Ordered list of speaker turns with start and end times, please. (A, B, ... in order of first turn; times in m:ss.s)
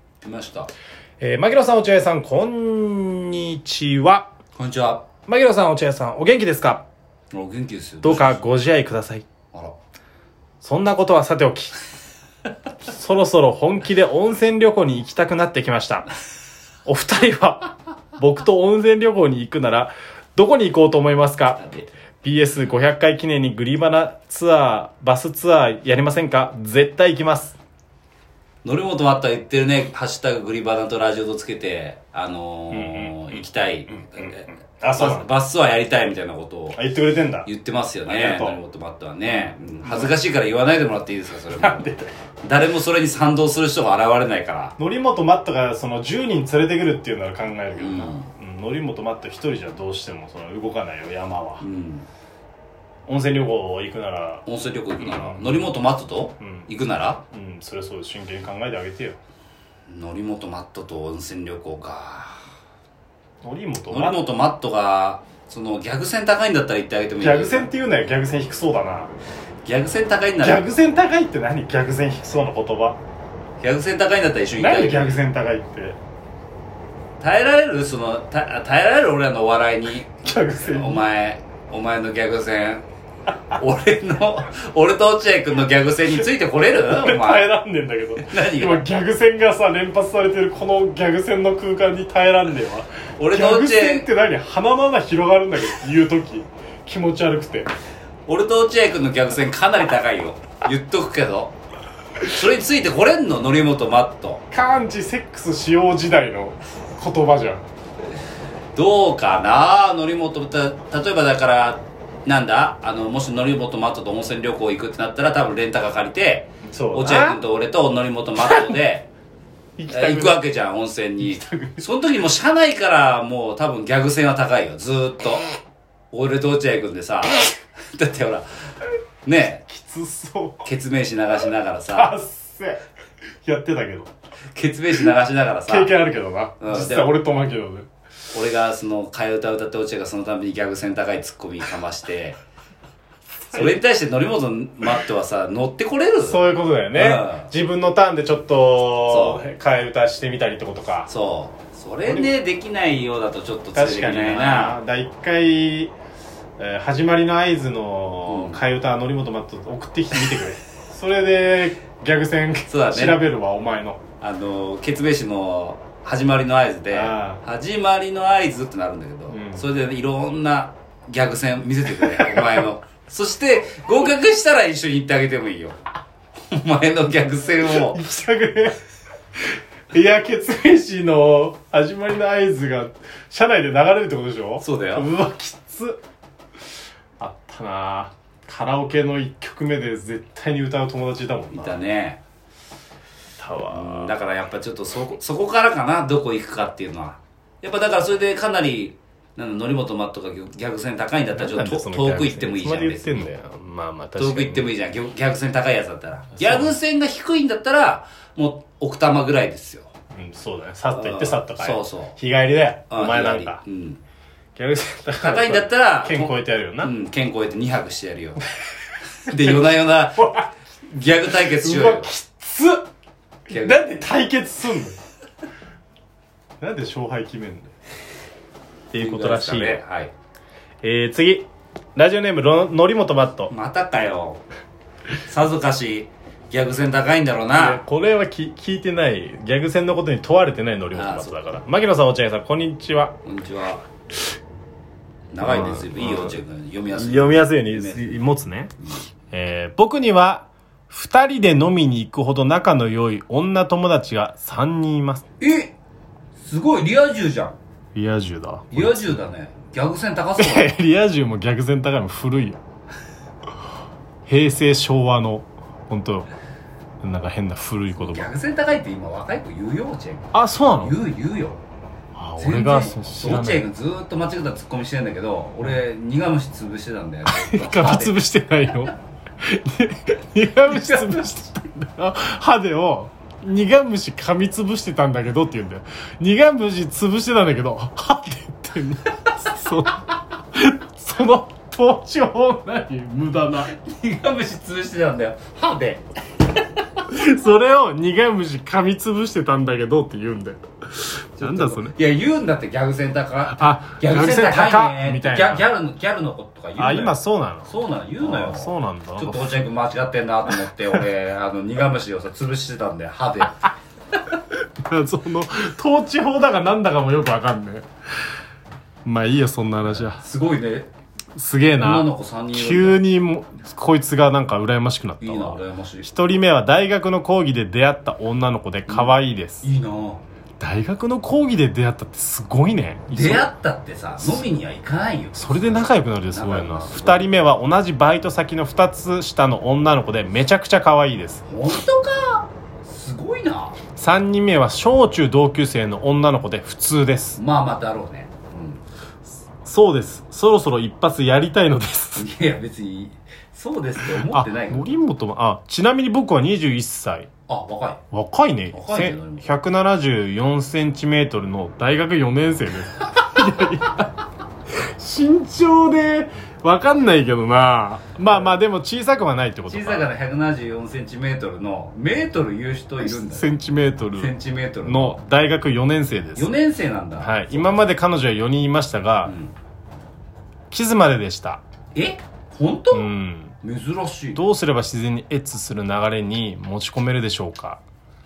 0:00.2-0:00.7 A
0:01.2-0:04.3 B
0:04.6-0:05.2 A
0:05.2-0:06.8 B
0:07.3-0:08.4 A
0:08.0-0:09.2 B
0:10.6-0:11.8 B
0:12.8-0:16.1 B
0:16.8-0:27.6 B
0:28.6-0:36.8 A
0:32.7-0:35.3 B
0:36.7-0:37.5 B
0:37.4-0:44.7 A
0:38.1-0:38.6 B
0:39.3-0:40.1 B
0:41.5-0:42.1 B
0:44.8-0:51.6 B
0:47.8-0:48.3 A
0:51.6-0:52.1 A
0:53.0-0:54.4 B
0:54.4-0:57.2 A
0:55.0-0:55.7 B
0:56.4-0:56.7 B
0:57.3-0:59.2 B
0:59.9-1:02.4 A
1:03.4-1:04.2 B
1:03.9-1:07.7 A
1:07.2-1:09.1 B
1:09.6-1:10.6 A
1:10.4-1:13.0 B
1:13.6-1:15.2 A
1:14.6-1:16.0 B
1:17.2-1:22.8 A
1:20.1-1:21.0 B
1:23.5-1:27.5 A
1:26.2-1:37.7 B
1:28.2-1:28.9 A
1:33.2-1:34.1 A
1:38.3-1:41.5 A
1:42.2-1:44.4 A
1:44.5-1:47.6 B
1:48.7-1:59.1 A
1:56.6-1:57.4 B
1:58.4-1:58.7 B
1:59.8-2:00.4 B
1:59.9-2:05.5 A
2:01.2-2:01.8 B
2:06.1-2:09.6 A
2:09.7-2:10.6 B
2:10.6-2:12.1 A
2:11.9-2:12.8 B
2:13.4-2:14.1 B
2:14.5-2:16.0 A
2:15.7-2:17.9 B
2:16.6-2:17.1 A
2:18.3-2:22.4 A
2:23.5-2:27.5 A
2:26.2-2:31.1 B
2:29.0-2:29.4 A
2:31.1-2:34.8 A
2:32.0-2:32.3 B
2:33.7-2:35.9 B
2:36.6-2:44.0 B
2:38.3-2:38.6 A
2:42.7-2:43.2 A
2:44.2-2:55.8 A
2:46.9-2:47.4 B
2:49.3-2:49.7 B
2:52.0-2:52.6 B
2:56.5-2:58.0 A
2:57.6-2:58.8 B
2:59.9-3:06.0 B
3:04.6-3:05.1 A
3:07.2-3:11.8 B
3:11.5-3:12.2 A
3:13.4-3:14.2 B
3:13.7-3:23.3 A
3:21.3-3:24.7 B
3:24.2-3:29.9 A
3:26.3-3:26.8 B
3:30.1-3:33.6 B
3:30.9-3:32.2 A
3:32.9-3:34.0 A
3:34.6-3:36.9 B
3:35.2-3:38.4 A
3:39.2-3:40.2 A
3:39.3-3:40.5 B
3:40.9-3:42.1 A
3:41.3-3:42.9 B
3:43.5-3:44.1 A
3:43.5-3:45.0 B
3:46.6-3:47.7 B
3:48.9-3:49.8 B
3:49.0-3:50.1 A
3:50.8-3:53.5 B
3:53.5-3:54.4 A
3:55.2-3:57.8 A
3:57.5-4:03.1 B
4:00.9-4:01.4 A
4:03.2-4:03.8 A
4:05.3-4:08.2 A
4:05.4-4:06.4 B
4:06.9-4:08.7 B
4:09.3-4:15.2 B
4:15.4-4:15.7 A
4:16.4-4:17.6 A
4:17.9-4:19.2 B
4:18.7-4:20.8 A
4:20.4-4:22.6 B
4:24.3-4:26.3 B
4:27.0-4:28.3 B
4:27.9-4:31.6 A
4:30.3-4:31.0 B
4:32.2-4:33.7 B
4:32.4-4:38.2 A
4:37.2-4:50.0 B
4:40.7-4:41.2 A
4:50.5-4:53.7 B
4:53.6-4:56.6 A
4:57.1-5:02.0 B
5:01.4-5:13.6 A
5:03.5-5:05.7 B
5:06.8-5:09.6 B
5:14.8-5:17.8 B
5:19.0-5:20.2 B
5:19.8-5:20.9 A
5:21.4-5:29.7 B
5:21.7-5:23.0 A
5:25.2-5:26.4 A
5:28.9-5:30.2 A
5:30.6-5:33.5 B
5:33.1-5:37.3 A
5:34.2-5:34.4 B
5:35.3-5:41.4 B
5:41.5-5:43.9 A
5:43.9-5:47.4 B
5:47.4-5:48.8 A
5:49.6-5:52.3 B
5:52.2-5:55.0 A
5:54.2-5:57.3 B
5:57.5-5:58.0 A
5:58.1-6:04.1 B
5:58.7-5:59.5 A
6:04.8-6:10.1 B
6:08.3-6:08.5 A
6:09.7-6:13.6 A
6:13.0-6:16.5 B
6:14.2-6:15.2 A
6:16.4-6:17.9 A
6:17.2-6:19.3 B
6:19.2-6:19.5 A
6:20.7-6:21.6 B
6:21.9-6:23.1 A
6:22.9-6:23.5 B
6:23.6-6:24.4 A
6:24.3-6:27.8 B